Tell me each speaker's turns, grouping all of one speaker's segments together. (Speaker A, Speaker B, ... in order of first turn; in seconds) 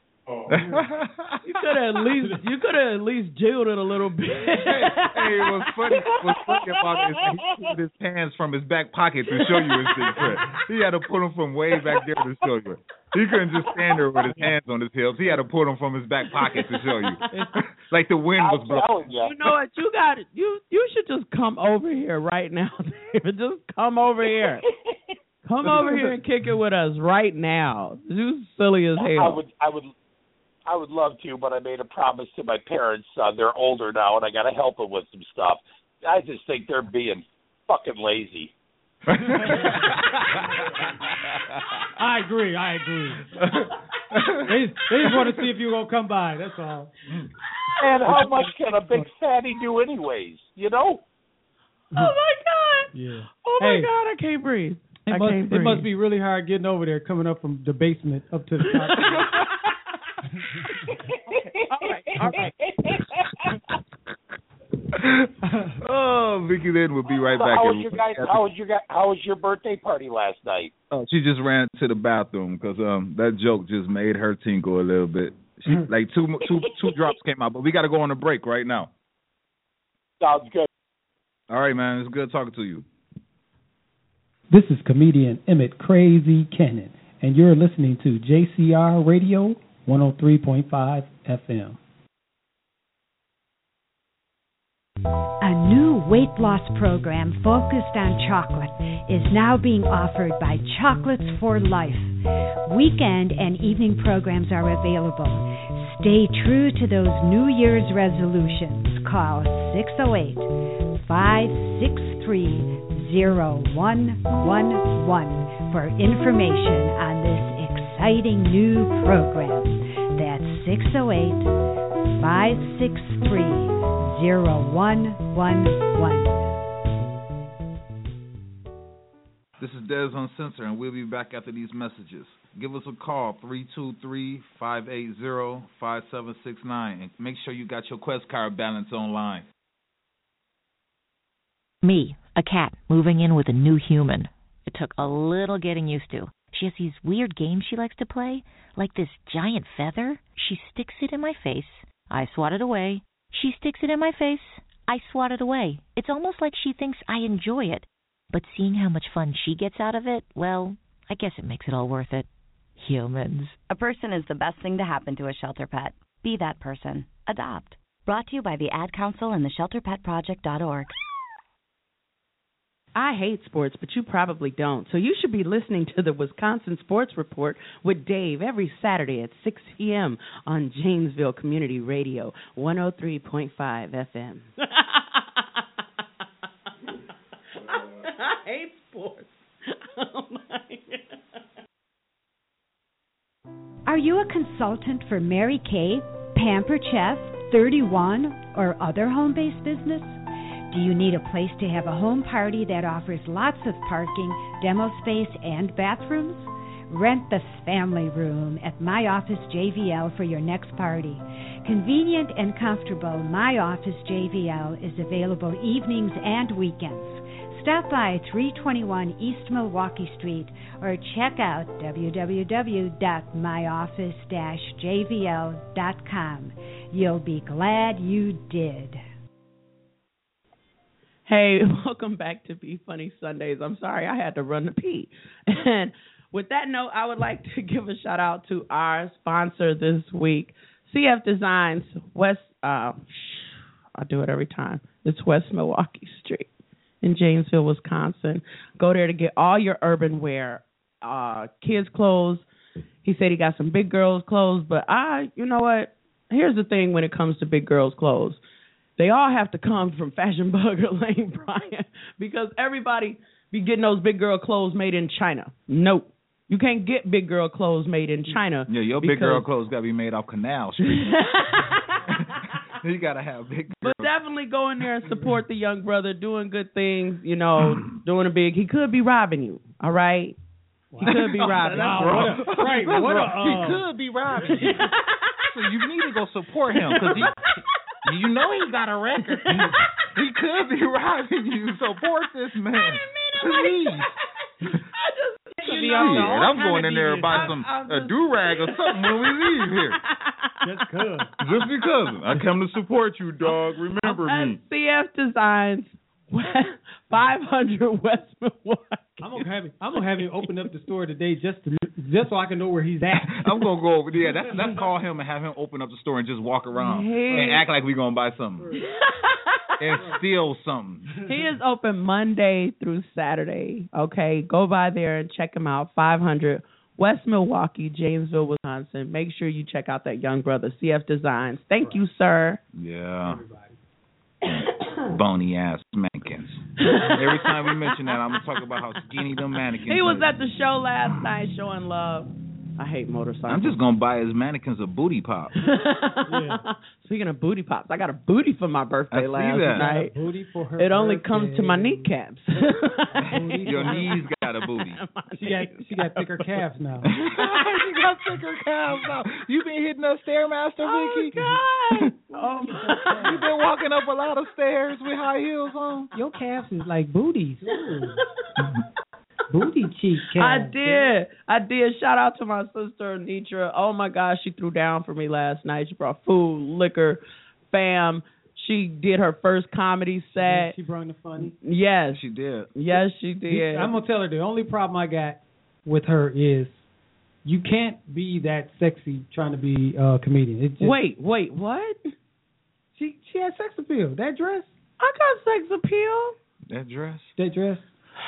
Speaker A: 0.5-1.4, 4.5-17.2, 17.8-18.9, 39.1-40.4, 41.1-41.5, 43.3-44.4, 64.9-65.3, 65.8-68.4, 70.9-78.9, 81.5-82.8, 129.6-139.4, 268.7-271.2, 272.1-274.1, 277.6-277.9, 281.0-284.8, 285.4-287.3, 288.0-294.1, 295.9-300.0, 301.4-304.6, 313.2-318.7, 319.8-321.1, 332.8-333.4, 334.4-340.3, 343.5-345.5, 349.1-349.9, 353.6-355.0, 357.1-361.4, 363.2-366.1, 382.1-382.7, 396.7-397.3
Speaker B: 0.5-0.8, 17.3-17.6, 39.2-41.0, 41.9-43.3, 44.4-46.9, 48.0-49.1, 52.9-53.9, 55.1-59.4, 60.4-60.9, 65.4-65.8, 84.5-91.8, 280.9-283.9, 284.4-284.8, 295.6-297.6, 300.6-301.3, 309.2-313.5, 314.5-314.8, 317.3-317.6, 318.6-318.9, 319.9-320.2, 333.2-333.8, 346.2-346.6, 349.7-352.1, 353.1-354.1, 355.4-357.1, 362.3-363.4, 366.1-368.2, 369.5-371.1, 380.4-381.5, 383.5-386.8, 387.4-391.0, 392.9-394.7, 397.4-397.9
Speaker C: 1.4-5.5, 19.2-24.6, 25.4-29.4, 47.5-48.1, 51.9-55.9, 58.7-59.4, 61.6-62.5, 172.9-185.6, 187.5-191.2, 231.3-246.5, 247.0-252.4, 253.0-258.4, 259.0-269.4, 270.9-272.0, 273.8-280.4, 281.0-282.4, 284.4-285.6, 286.8-287.6, 289.4-289.9, 292.7-300.8, 303.4-309.3, 309.9-310.5, 316.7-317.6, 318.7-319.7, 321.2-332.6, 334.7-335.1, 336.8-338.8, 339.8-343.8, 345.6-350.1, 350.8-357.8, 360.8-363.5, 367.7-368.2, 370.3-380.7, 381.4-382.2, 382.7-383.9, 390.8-392.1, 395.0-396.4
Speaker D: 18.4-19.3, 29.0-29.9, 30.6-38.5, 47.8-51.0, 60.9-63.7, 67.1-70.7, 80.2-80.7
Speaker E: 95.4-102.1, 102.7-121.5, 122.2-126.6, 193.8-200.2, 200.7-229.0
Speaker F: 141.8-163.6
Speaker G: 163.7-170.9